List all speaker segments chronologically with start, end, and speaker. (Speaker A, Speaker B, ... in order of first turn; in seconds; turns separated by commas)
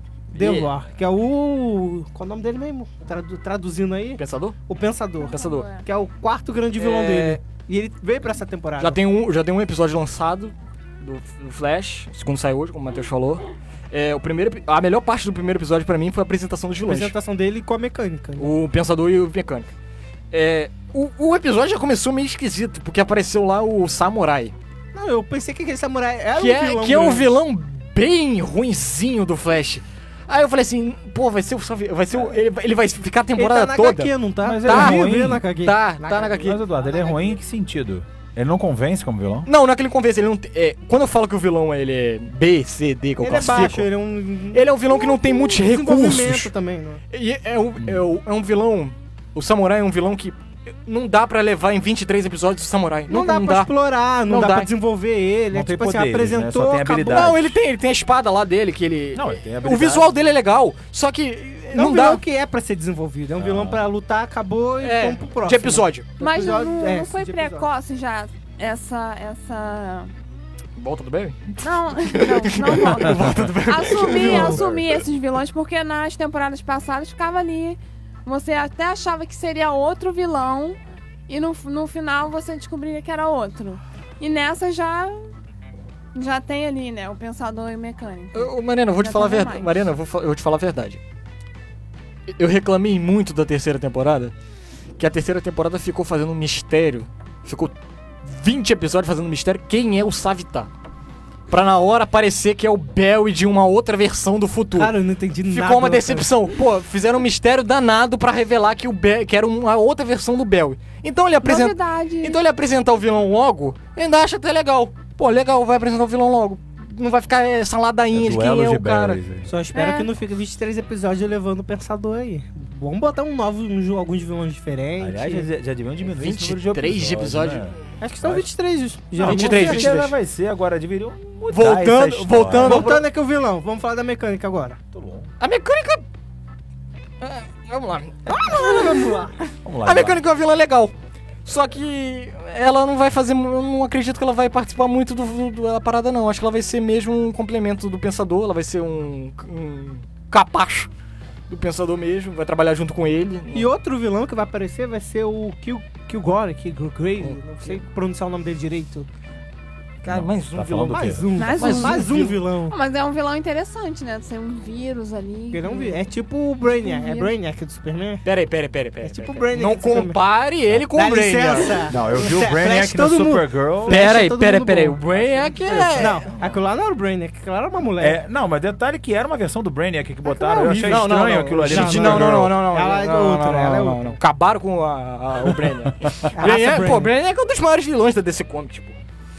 Speaker A: 0.3-9.0, Speaker B: 0.3-0.7, Speaker B: 4.2-4.6, Speaker C: 5.2-5.8, Speaker B: 5.3-5.7, Speaker B: 6.8-7.4, Speaker B: 8.8-17.1, Speaker A: 16.9-18.5, Speaker B: 18.4-19.7, Speaker B: 20.3-24.5, Speaker A: 24.9-27.3, Speaker B: 26.3-34.1, Speaker A: 33.3-37.4, Speaker D: 34.4-35.4, Speaker B: 34.6-36.6, Speaker D: 36.4-39.5, Speaker B: 39.5-43.9, Speaker A: 43.2-47.0, Speaker B: 44.5-46.5, Speaker B: 47.1-53.7, Speaker A: 53.1-57.3, Speaker B: 54.2-54.7, Speaker D: 55.5-57.5, Speaker B: 56.9-62.2, Speaker D: 59.1-60.0, Speaker A: 61.7-67.7, Speaker D: 63.4-63.8, Speaker B: 64.8-66.1, Speaker C: 66.2-70.1, Speaker B: 70.8-74.6, Speaker C: 71.6-85.3, Speaker A: 74.2-74.6, Speaker D: 74.5-75.0, Speaker C: 86.1-89.9, Speaker B: 88.3-91.0, Speaker B: 92.3-94.3, Speaker B: 95.0-100.7, Speaker B: 101.5-104.9, Speaker A: 104.8-106.3, Speaker B: 105.5-119.2, Speaker C: 111.4-112.4, Speaker D: 118.1-119.5, Speaker A: 119.4-125.5, Speaker C: 119.7-120.1, Speaker D: 125.0-128.5, Speaker B: 126.0-127.8, Speaker A: 128.0-130.0, Speaker D: 129.2-132.9, Speaker B: 129.2-130.1, Speaker B: 131.5-133.0, Speaker A: 132.6-134.8, Speaker D: 134.9-135.3, Speaker B: 135.4-136.0, Speaker B: 137.2-139.2, Speaker A: 138.2-139.4, Speaker D: 139.6-140.2, Speaker B: 139.8-140.9, Speaker B: 141.4-150.9, Speaker B: 151.5-153.7, Speaker A: 153.5-159.1, Speaker B: 157.2-157.8, Speaker B: 160.0-162.3, Speaker D: 160.0-161.3, Speaker A: 160.9-162.8, Speaker C: 161.4-166.1, Speaker A: 165.5-168.2, Speaker C: 166.6-167.3, Speaker B: 168.2-171.8, Speaker A: 169.0-170.2, Speaker A: 170.9-175.3, Speaker D: 171.9-174.1, Speaker B: 173.8-176.2, Speaker D: 175.1-176.6, Speaker A: 175.9-178.2, Speaker D: 178.0-182.5, Speaker A: 180.2-184.2, Speaker B: 180.8-189.0, Speaker D: 185.8-186.3, Speaker A: 186.3-187.1